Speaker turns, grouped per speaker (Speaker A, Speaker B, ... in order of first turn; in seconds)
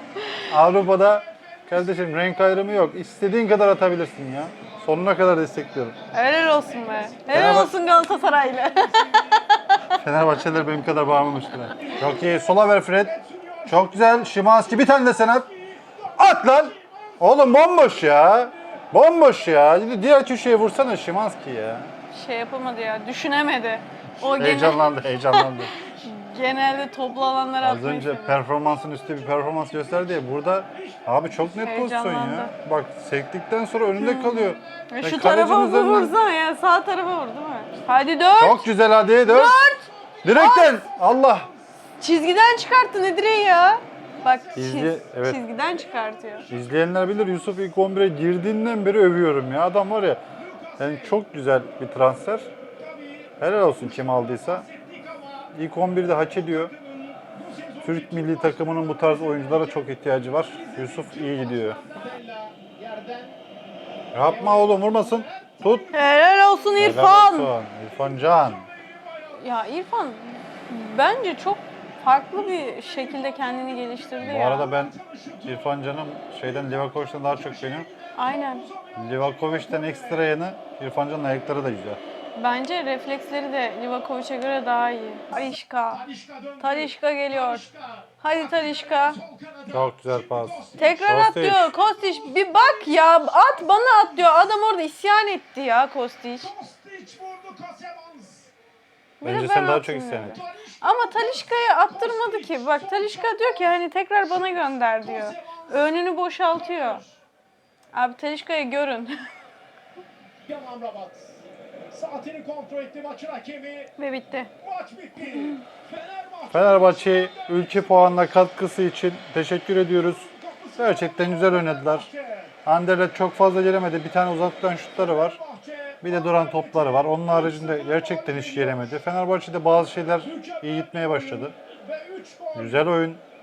Speaker A: 0.2-0.5, 6.1-10.0, 22.1-28.4, 31.6-32.5, 34.0-38.7, 39.2-39.8, 40.3-40.8, 42.0-46.5, 65.9-67.5, 69.4-74.7, 78.1-78.7, 82.3-86.0, 86.6-87.6, 88.2-89.2, 90.8-96.5, 99.2-107.0, 107.9-109.1, 114.0-114.5, 115.2-115.6
Speaker B: 0.5-6.0, 7.3-7.7, 10.0-15.5, 16.2-21.9, 24.4-25.7, 27.6-36.1, 38.4-39.6, 40.2-41.5, 44.5-45.4, 46.5-50.2, 50.8-52.5, 53.4-54.6, 55.5-56.7, 57.8-61.8, 64.1-65.9, 66.8-68.7, 74.2-77.9, 79.0-82.0, 89.7-91.7, 99.2-100.4, 116.5-122.1, 122.6-125.4, 126.0-131.5, 132.5-133.2
Speaker C: 6.0-9.5, 11.8-14.5, 15.4-17.2, 24.2-24.9, 25.6-27.5, 28.9-30.1, 30.7-31.0, 39.8-41.6, 44.2-44.9, 46.1-46.6, 50.3-51.2, 52.6-55.5, 56.3-59.9, 60.4-63.4, 64.1-66.7, 68.2-69.4, 72.3-75.7, 76.6-80.2, 85.9-94.1, 96.4-98.5, 100.2-103.8, 104.3-105.9, 106.5-107.2, 110.5-113.9, 114.6-118.2, 120.2-122.5, 125.0-128.9, 130.2-132.8